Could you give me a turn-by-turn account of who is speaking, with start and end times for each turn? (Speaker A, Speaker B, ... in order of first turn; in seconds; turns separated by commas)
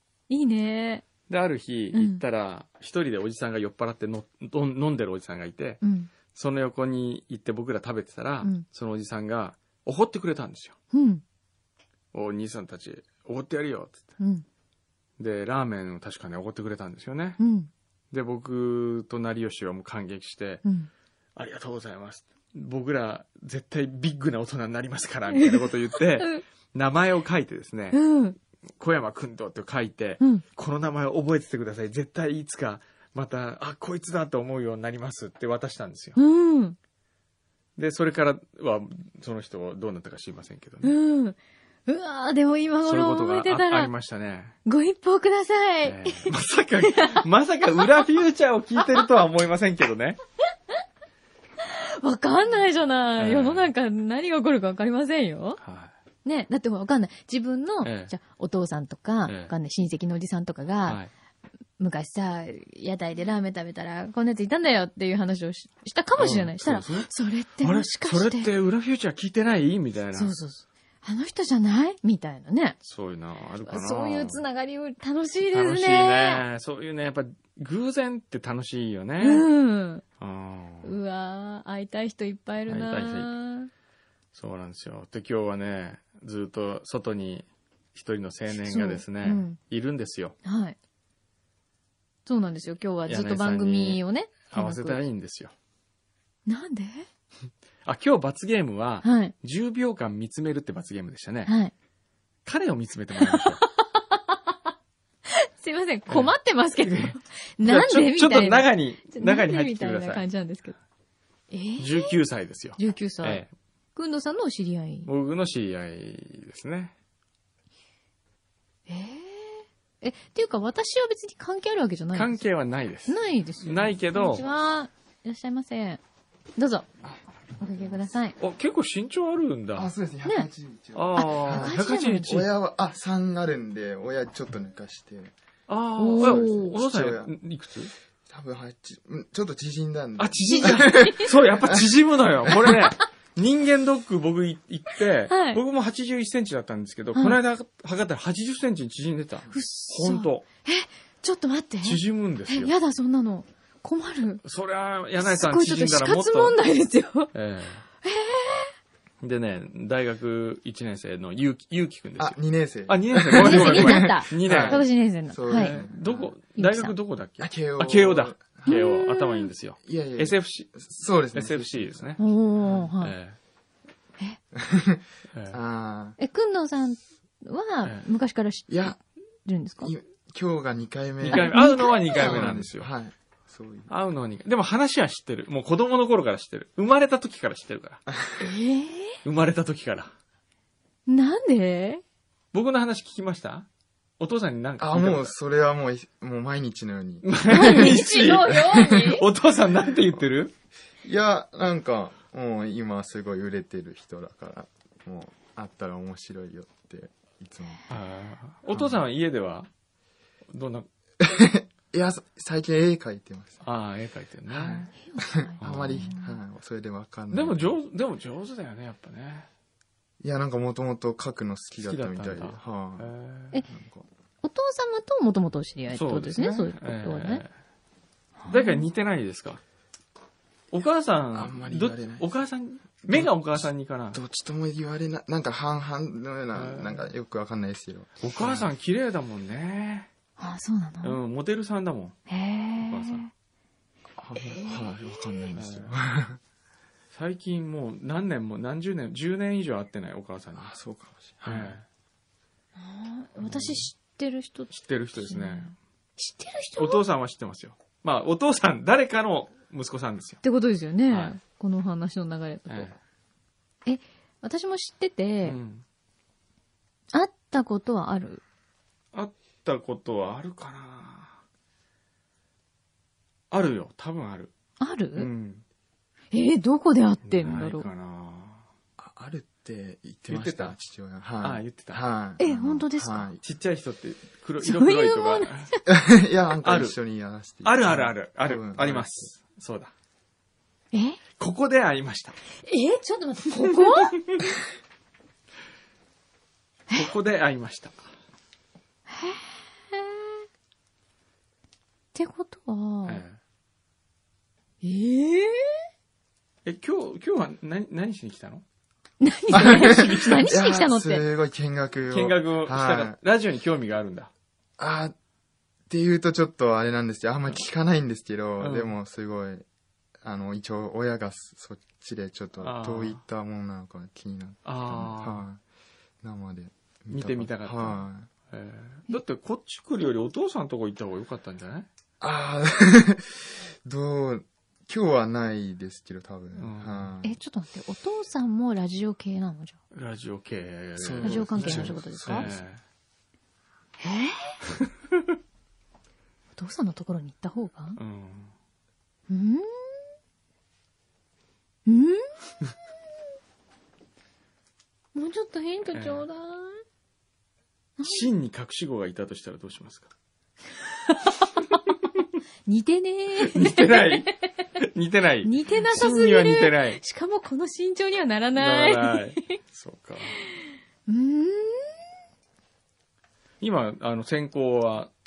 Speaker A: 0.3-1.0, Speaker B: 1.3-10.8, Speaker A: 1.9-2.2, Speaker A: 5.8-6.1, Speaker A: 10.9-11.2, Speaker B: 12.1-14.1, Speaker A: 14.2-14.4, Speaker B: 15.2-17.4, Speaker A: 17.4-17.7, Speaker B: 18.1-20.6, Speaker B: 21.4-28.0, Speaker A: 25.3-26.4, Speaker A: 27.9-28.4, Speaker B: 28.8-36.2, Speaker A: 36.1-36.8, Speaker B: 37.8-40.9, Speaker A: 40.8-43.9, Speaker B: 42.8-44.5, Speaker A: 44.6-46.3, Speaker B: 45.8-50.2, Speaker A: 46.9-47.2, Speaker A: 51.6-55.6, Speaker B: 53.2-53.7, Speaker B: 55.6-55.9, Speaker A: 56.2-61.0, Speaker B: 57.8-58.1, Speaker B: 59.2-59.5, Speaker A: 61.8-68.5, Speaker B: 66.2-67.1, Speaker B: 67.6-70.3, Speaker A: 70.1-72.8, Speaker B: 72.8-74.4, Speaker A: 73.6-76.4, Speaker B: 75.5-79.5, Speaker A: 79.2-80.0, Speaker B: 80.2-80.9, Speaker A: 80.8-83.7, Speaker B: 82.7-83.3, Speaker B: 84.3-90.3, Speaker A: 88.5-89.6, Speaker A: 90.4-90.8, Speaker A: 92.2-95.0, Speaker B: 93.1-95.5, Speaker A: 96.5-97.1, Speaker B: 97.8-101.5, Speaker A: 99.0-99.3, Speaker A: 101.5-101.7, Speaker B: 102.4-103.6, Speaker A: 103.2-104.4, Speaker A: 105.6-110.8, Speaker B: 106.1-110.2, Speaker A: 111.5-112.1, Speaker B: 111.8-113.5, Speaker A: 112.8-115.1, Speaker B: 115.0-116.9, Speaker A: 118.9-122.4, Speaker B: 122.1-124.4, Speaker A: 123.1-126.0, Speaker A: 126.6-126.9, Speaker A: 127.6-128.3, Speaker B: 128.4-129.9, Speaker C: 129.7-135.3, Speaker B: 130.9-132.5, Speaker A: 131.2-132.3, Speaker B: 135.7-137.9, Speaker A: 136.0-136.7, Speaker C: 136.2-137.3, Speaker C: 138.3-141.8, Speaker B: 140.2-150.4, Speaker A: 140.4-141.3, Speaker A: 142.6-143.0, Speaker A: 145.3-145.6, Speaker A: 147.1-147.4, Speaker A: 149.5-154.4, Speaker B: 151.8-152.7, Speaker B: 154.4-156.6, Speaker A: 155.2-157.3, Speaker B: 157.3-157.8, Speaker A: 158.0-158.7, Speaker B: 159.2-164.8, Speaker C: 162.2-166.3, Speaker A: 163.3-165.8, Speaker B: 165.5-172.2, Speaker A: 166.6-166.9, Speaker C: 167.4-168.8, Speaker A: 168.7-169.5, Speaker C: 169.8-172.8, Speaker A: 172.2-173.1, Speaker B: 173.0-173.4, Speaker C: 174.5-176.2, Speaker B: 175.3-175.6, Speaker A: 176.2-179.9, Speaker C: 178.7-179.0, Speaker C: 179.8-181.6, Speaker B: 181.2-182.9, Speaker A: 181.3-182.4, Speaker C: 182.1-183.9, Speaker B: 183.9-188.0, Speaker C: 188.1-188.4, Speaker A: 188.4-189.2, Speaker B: 189.2-190.1, Speaker A: 191.1-192.0, Speaker B: 192.5-193.7, Speaker B: 194.2-195.3, Speaker C: 194.8-197.3, Speaker B: 197.2-200.5, Speaker A: 197.5-199.2, Speaker C: 201.0-207.9, Speaker B: 207.9-209.7, Speaker C: 208.7-209.0, Speaker B: 210.5-210.9, Speaker C: 211.2-213.6, Speaker B: 213.6-214.9, Speaker C: 214.5-217.8, Speaker A: 215.0-216.4, Speaker B: 215.6-216.1, Speaker B: 217.3-219.5, Speaker C: 220.2-223.1, Speaker B: 221.8-223.5, Speaker C: 223.7-224.1, Speaker A: 224.4-227.4, Speaker B: 225.9-227.5, Speaker A: 228.4-228.9, Speaker B: 228.5-229.6, Speaker B: 230.7-234.2, Speaker C: 231.3-232.3, Speaker C: 233.1-238.7, Speaker B: 236.5-237.1, Speaker B: 238.2-240.1, Speaker A: 240.4-241.2, Speaker B: 241.0-242.2, Speaker A: 242.3-243.3, Speaker B: 242.8-243.3, Speaker C: 244.2-246.4, Speaker B: 245.5-245.9, Speaker B: 247.1-250.7, Speaker C: 250.6-251.8, Speaker B: 251.4-251.8, Speaker A: 252.8-257.0, Speaker B: 253.4-253.9, Speaker B: 254.7-255.7, Speaker B: 256.8-260.4, Speaker A: 260.4-262.9, Speaker B: 261.1-261.4, Speaker B: 262.7-262.9, Speaker A: 263.9-265.6, Speaker B: 265.4-265.8, Speaker A: 267.1-268.4, Speaker B: 269.1-271.4, Speaker B: 273.5-274.5, Speaker A: 274.8-275.3, Speaker B: 275.1-275.6, Speaker A: 276.3-277.9, Speaker B: 277.2-278.6, Speaker C: 279.0-283.4, Speaker B: 280.3-280.8, Speaker B: 281.4-282.0, Speaker A: 282.4-283.3, Speaker B: 283.4-285.7, Speaker A: 284.6-285.8, Speaker C: 285.9-289.3, Speaker B: 286.6-286.9, Speaker B: 287.6-289.9, Speaker A: 290.9-291.2, Speaker B: 291.4-292.4, Speaker A: 292.6-294.2, Speaker B: 293.8-294.2, Speaker B: 296.9-298.0, Speaker A: 299.1-300.4, Speaker A: 302.1-303.2, Speaker B: 303.1-303.4, Speaker A: 304.8-305.8, Speaker B: 306.6-308.6, Speaker A: 309.2-311.2, Speaker C: 309.5-313.1, Speaker B: 309.6-310.4, Speaker B: 312.1-314.3, Speaker C: 314.8-315.1, Speaker C: 315.9-319.6, Speaker B: 318.6-318.9, Speaker C: 320.2-325.6, Speaker B: 322.6-323.2, Speaker B: 324.6-325.4, Speaker C: 326.2-328.3, Speaker B: 327.1-331.9, Speaker C: 332.2-337.4, Speaker B: 336.6-337.1, Speaker A: 337.2-339.8, Speaker B: 339.9-342.8, Speaker C: 341.0-342.6, Speaker A: 341.2-342.5, Speaker A: 344.0-344.6, Speaker A: 346.5-348.0, Speaker B: 348.0-348.5, Speaker A: 349.3-350.0, Speaker A: 351.9-352.2, Speaker A: 355.1-356.8, Speaker B: 355.9-356.2, Speaker A: 358.0-358.3, Speaker B: 358.0-360.1, Speaker A: 361.1-361.8, Speaker A: 362.6-364.3, Speaker B: 363.4-367.0, Speaker A: 365.4-369.5, Speaker B: 368.6-370.4, Speaker A: 371.1-372.0, Speaker B: 373.6-375.1